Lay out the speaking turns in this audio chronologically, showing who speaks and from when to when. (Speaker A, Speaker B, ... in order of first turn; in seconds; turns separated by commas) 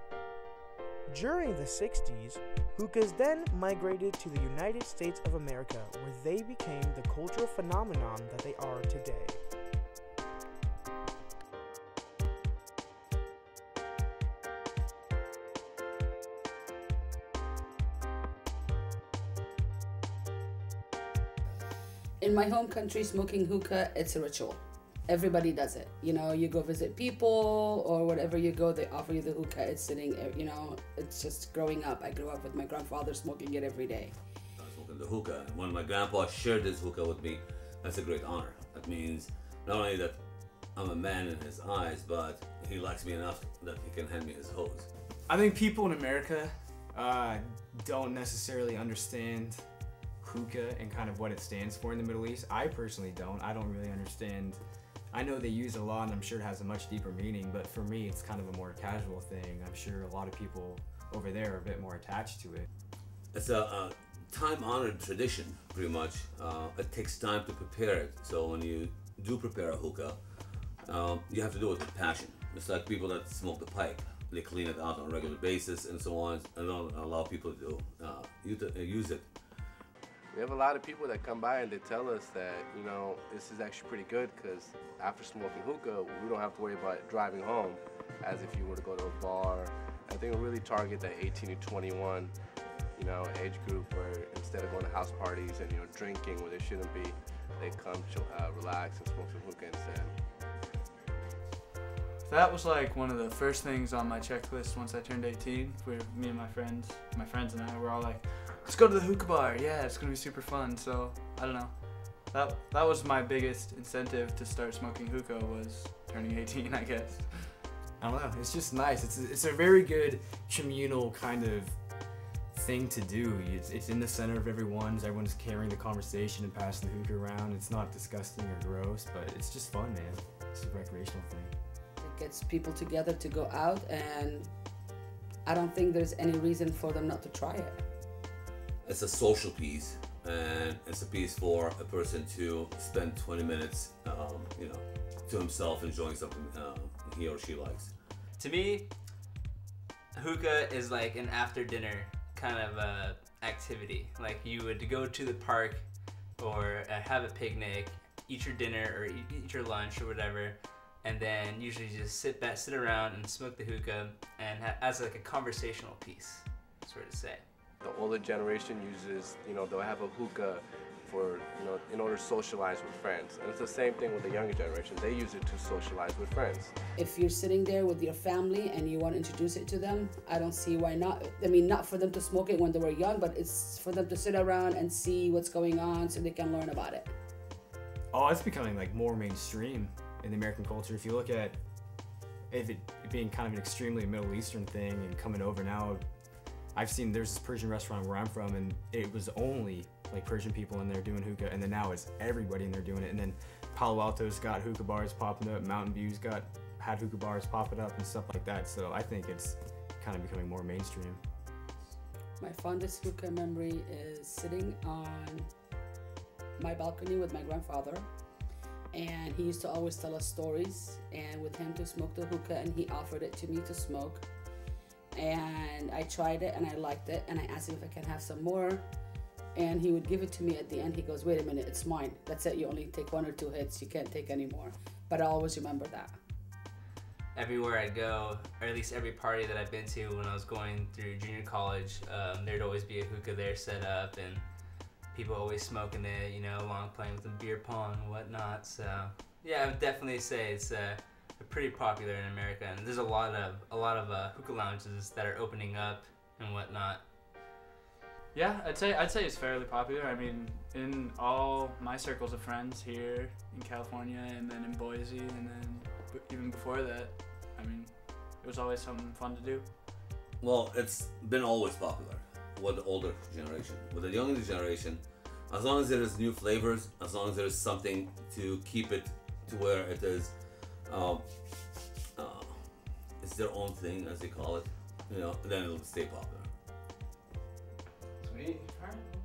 Speaker A: 1.1-9.4, Speaker B: 22.2-34.1, Speaker C: 34.6-44.9, Speaker D: 45.3-46.7, Speaker E: 46.9-49.6, Speaker E: 50.2-54.6, Speaker E: 55.1-62.7, Speaker C: 63.3-79.8, Speaker F: 80.3-92.3, Speaker F: 93.0-100.2, Speaker D: 102.2-117.6, Speaker E: 118.0-121.8, Speaker E: 122.5-131.5, Speaker B: 132.0-134.5, Speaker B: 135.4-137.8, Speaker C: 138.8-148.0, Speaker G: 148.4-148.9, Speaker G: 150.1-167.4, Speaker F: 167.8-176.7, Speaker B: 176.9-187.1, Speaker E: 188.1-191.6, Speaker E: 192.5-196.0, Speaker E: 196.7-211.2, Speaker B: 212.4-215.5, Speaker B: 216.6-218.1, Speaker B: 218.9-224.3, Speaker B: 225.1-228.8, Speaker B: 229.5-236.2, Speaker G: 237.3-257.1, Speaker D: 258.3-269.7, Speaker C: 270.4-286.5